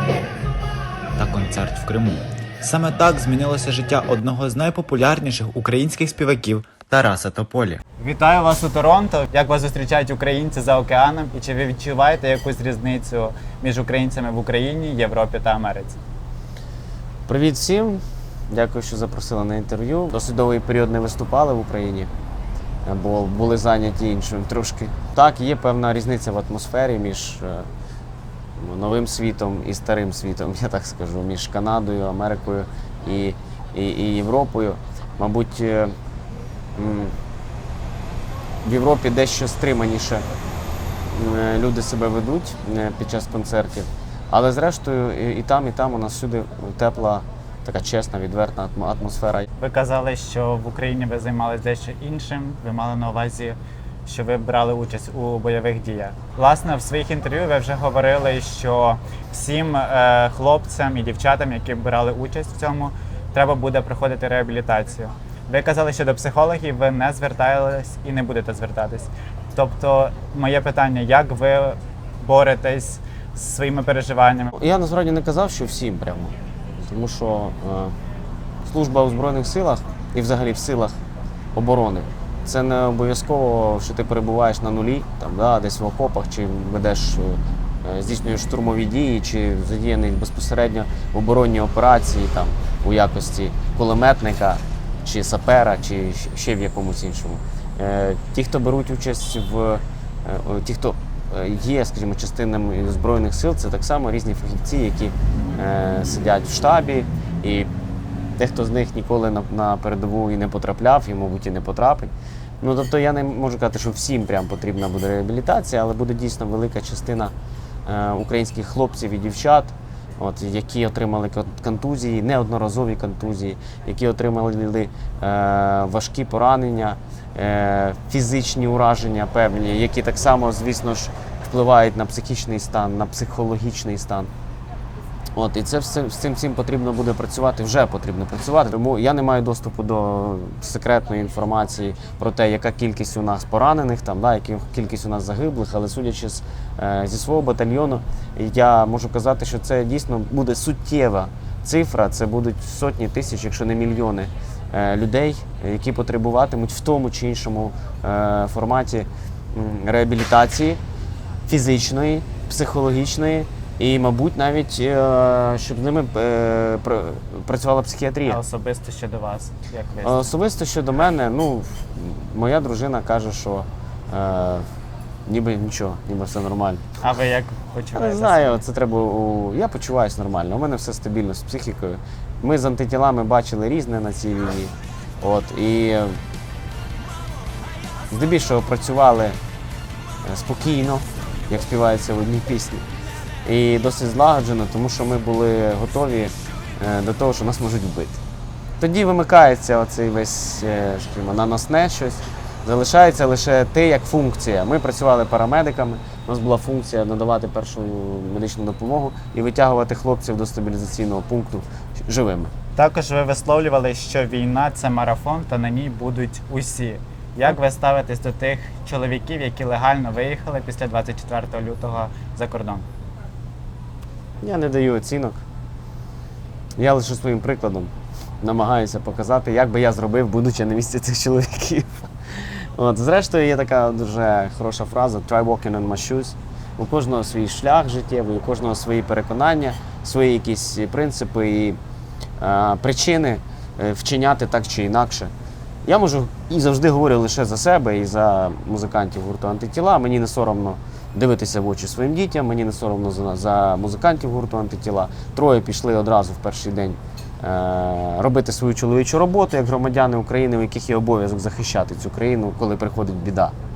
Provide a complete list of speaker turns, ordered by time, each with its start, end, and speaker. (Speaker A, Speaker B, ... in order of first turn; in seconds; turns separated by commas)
Speaker A: 1.2-7.8, Speaker B: 8.0-16.0, Speaker C: 17.3-22.1, Speaker C: 22.9-27.7, Speaker C: 28.6-36.0, Speaker C: 36.8-37.2, Speaker C: 38.6-40.3, Speaker C: 41.1-49.5, Speaker B: 49.6-74.5, Speaker C: 74.5-78.0, Speaker C: 78.7-81.0, Speaker C: 81.5-107.7, Speaker C: 108.4-117.3, Speaker C: 117.9-134.3, Speaker C: 135.4-160.8, Speaker C: 161.5-168.4, Speaker B: 168.2-170.3, Speaker C: 170.0-174.7, Speaker C: 175.3-176.9, Speaker B: 177.0-178.6, Speaker C: 177.9-186.2, Speaker C: 188.1-189.4, Speaker C: 190.2-192.8, Speaker C: 193.4-198.2, Speaker C: 198.8-212.5, Speaker B: 212.8-222.9, Speaker C: 224.4-225.4, Speaker C: 226.8-241.8, Speaker C: 242.4-245.3, Speaker C: 245.8-263.6